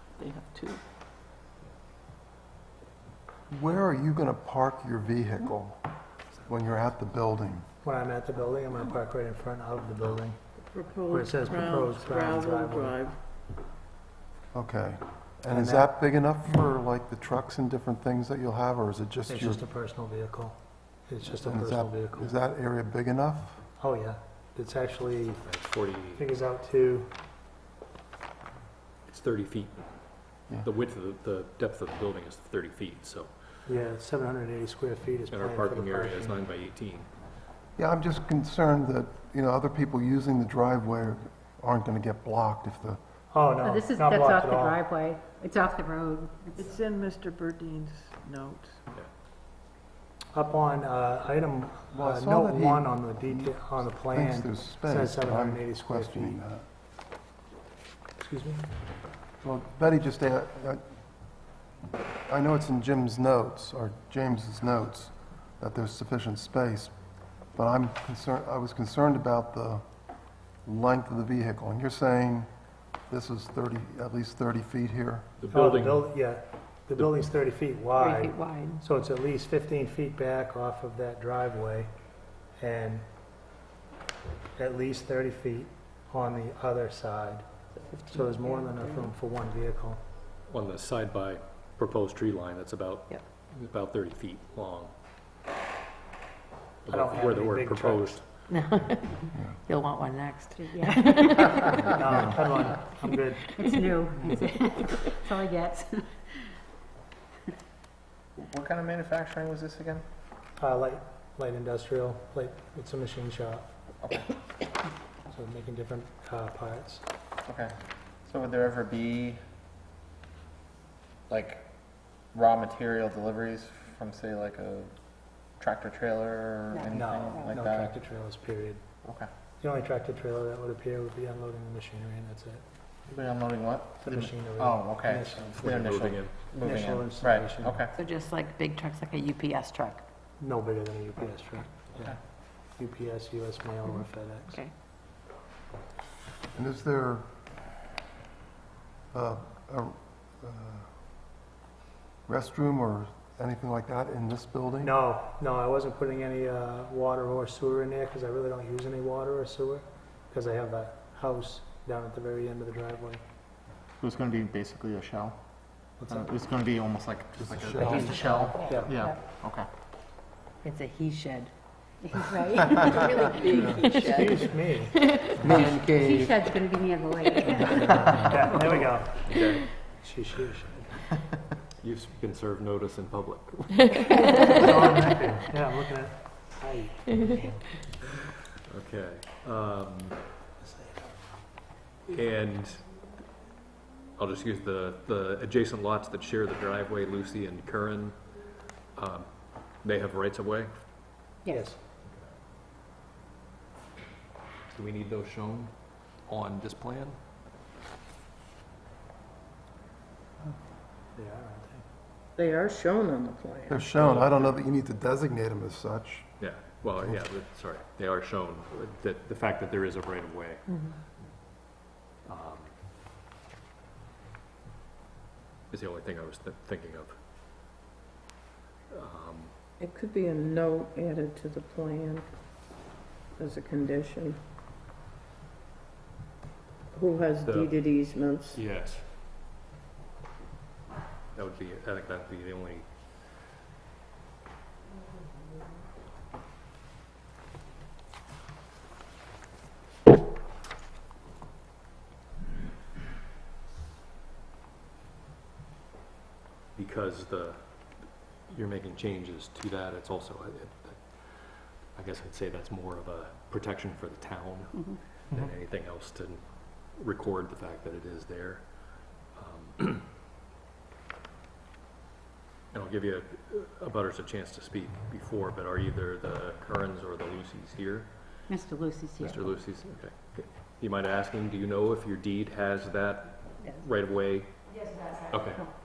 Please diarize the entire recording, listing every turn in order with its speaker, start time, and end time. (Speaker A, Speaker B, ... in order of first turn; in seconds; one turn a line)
Speaker A: 0.2-0.8
Speaker B: 3.5-5.8
Speaker B: 6.5-7.7
Speaker C: 7.8-10.4
Speaker A: 10.7-13.1
Speaker C: 11.1-13.0
Speaker B: 14.5-19.6
Speaker C: 15.5-15.9
Speaker C: 19.3-22.3
Speaker B: 21.4-23.6
Speaker C: 23.8-25.4
Speaker D: 25.4-26.2
Speaker C: 26.1-27.1
Speaker D: 29.1-33.3
Speaker C: 33.6-36.4
Speaker D: 35.3-37.1
Speaker B: 37.8-43.0
Speaker C: 43.3-44.8
Speaker E: 43.6-46.4
Speaker F: 46.3-46.6
Speaker A: 46.5-48.8
Speaker C: 50.3-56.4
Speaker B: 51.9-56.6
Speaker C: 58.2-58.6
Speaker B: 59.4-60.8
Speaker B: 62.3-66.9
Speaker B: 67.5-69.8
Speaker B: 70.6-72.5
Speaker B: 73.1-75.2
Speaker D: 75.4-76.1
Speaker C: 75.5-81.9
Speaker F: 78.0-78.8
Speaker C: 82.6-83.0
Speaker C: 84.5-87.4
Speaker F: 87.8-88.6
Speaker C: 88.1-90.0
Speaker D: 90.5-94.9
Speaker D: 96.8-98.4
Speaker C: 96.9-98.2
Speaker G: 98.5-99.1
Speaker G: 99.7-101.5
Speaker F: 100.6-101.5
Speaker E: 100.9-101.6
Speaker C: 101.9-103.6
Speaker E: 103.6-106.2
Speaker F: 103.6-105.4
Speaker H: 108.4-110.0
Speaker C: 110.6-113.7
Speaker H: 114.0-114.3
Speaker C: 115.3-117.0
Speaker H: 117.5-117.7
Speaker H: 118.2-119.4
Speaker H: 121.3-121.6
Speaker H: 122.3-124.9
Speaker H: 125.6-127.9
Speaker C: 126.9-128.8
Speaker H: 129.0-129.3
Speaker C: 129.6-132.6
Speaker H: 133.1-137.9
Speaker C: 134.0-135.8
Speaker D: 135.6-136.3
Speaker C: 136.6-137.8
Speaker E: 138.0-139.6
Speaker G: 138.1-140.0
Speaker C: 140.4-142.1
Speaker C: 142.8-144.6
Speaker B: 146.5-147.2
Speaker B: 149.1-150.9
Speaker B: 152.3-155.0
Speaker C: 154.8-163.2
Speaker H: 164.0-165.4
Speaker C: 166.0-166.3
Speaker H: 166.1-169.7
Speaker B: 167.4-168.2
Speaker G: 167.8-168.7
Speaker C: 168.6-168.9
Speaker G: 170.6-171.5
Speaker E: 172.0-174.0
Speaker F: 172.3-173.8
Speaker C: 173.8-175.0
Speaker H: 175.4-176.1
Speaker B: 175.4-176.3
Speaker E: 175.5-177.6
Speaker F: 176.0-177.9
Speaker C: 177.7-180.8
Speaker D: 178.8-179.7
Speaker D: 181.8-184.7
Speaker C: 184.1-187.7
Speaker D: 188.7-190.3
Speaker C: 190.6-191.2
Speaker D: 192.0-192.8
Speaker D: 194.2-198.2
Speaker D: 198.9-200.7
Speaker C: 201.4-201.8
Speaker D: 204.7-207.2
Speaker C: 211.1-211.8
Speaker A: 212.4-213.7
Speaker B: 213.7-216.3
Speaker D: 213.9-214.6
Speaker D: 216.4-220.8
Speaker D: 222.2-222.7
Speaker D: 225.7-227.2
Speaker D: 228.9-229.5
Speaker A: 229.8-232.3
Speaker A: 233.4-234.4
Speaker A: 236.9-238.6
Speaker D: 237.4-237.8
Speaker D: 238.5-239.1
Speaker D: 241.3-242.9
Speaker D: 256.7-270.1
Speaker D: 272.7-278.5
Speaker E: 278.5-279.4
Speaker D: 279.2-284.6
Speaker F: 284.7-285.6
Speaker D: 285.3-285.7